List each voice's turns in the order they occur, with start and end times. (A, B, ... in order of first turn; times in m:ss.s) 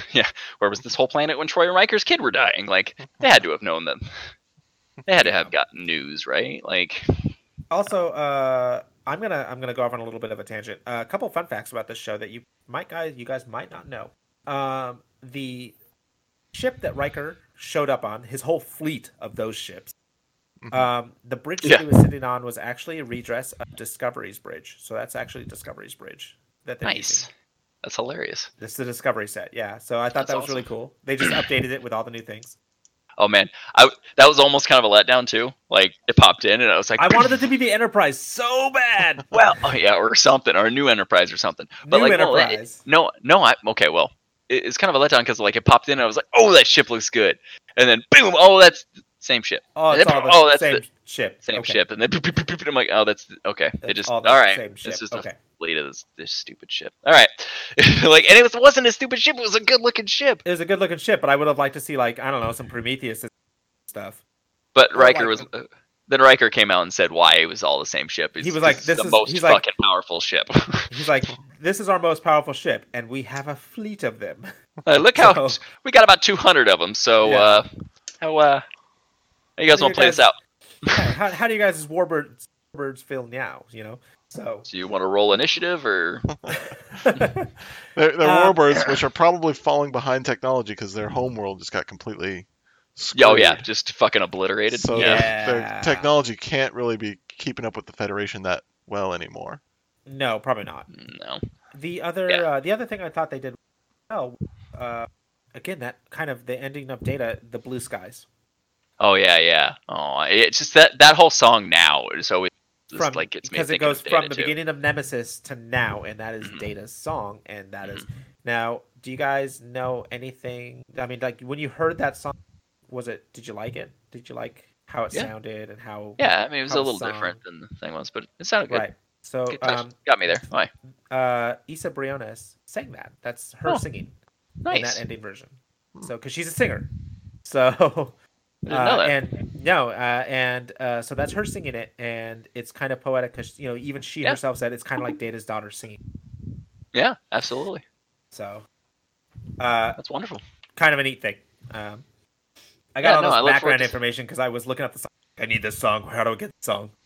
0:00.1-0:04.0 A
0:05.1-0:07.0 A
0:05.2-0:05.5 B
0:07.7-0:15.8 B
0:16.5-0:19.9 B
0:20.6-0:20.9 C
0:20.7-0:27.3 B
0:21.6-0:22.0 A
0:26.8-0:27.3 A
0:27.8-0:28.5 A
0:28.6-0:32.6 B
0:30.2-0:30.7 A
0:33.2-0:37.3 A
0:37.0-0:39.3 B
0:39.3-0:50.8 A
0:41.8-0:42.8 B
0:49.8-0:51.8 B
0:51.5-1:00.4 A
0:53.8-0:55.4 B
1:00.4-1:03.3 B
1:03.9-1:04.2 B
1:04.8-1:10.9 A
1:04.9-1:05.5 B
1:08.4-1:09.6 B
1:10.9-1:14.5 B
1:14.9-1:17.7 A
1:15.2-1:15.6 B
1:17.2-1:17.6 B
1:18.2-1:18.6 A
1:19.6-1:21.0 A
1:19.7-1:20.3 B
1:20.9-1:24.7 B
1:24.7-1:26.3 A
1:26.5-1:27.5 B
1:28.0-1:33.7 C
1:28.2-1:28.9 B
1:33.2-1:35.3 A
1:34.7-1:39.6 C
1:34.9-1:36.1 B
1:40.1-1:40.9 B
1:40.9-1:41.5 A
1:41.7-1:43.6 B
1:44.1-1:48.3 B
1:49.0-1:54.6 A
1:52.9-2:02.4 B
1:56.4-1:56.7 A
2:02.9-2:07.4 B
2:06.2-2:08.9 A
2:08.7-2:10.1 B
2:09.5-2:10.7 A
2:11.1-2:14.2 B
2:14.6-2:15.0 A
2:14.7-2:16.9 B
2:17.4-2:18.2 B
2:18.6-2:19.2 A
2:18.7-2:26.0 B
2:26.9-2:27.8 A
2:28.3-2:28.6 B
2:29.6-2:30.0 B
2:30.0-2:30.4 A
2:30.8-2:32.0 B
2:33.0-2:36.9 B
2:33.0-2:33.9 A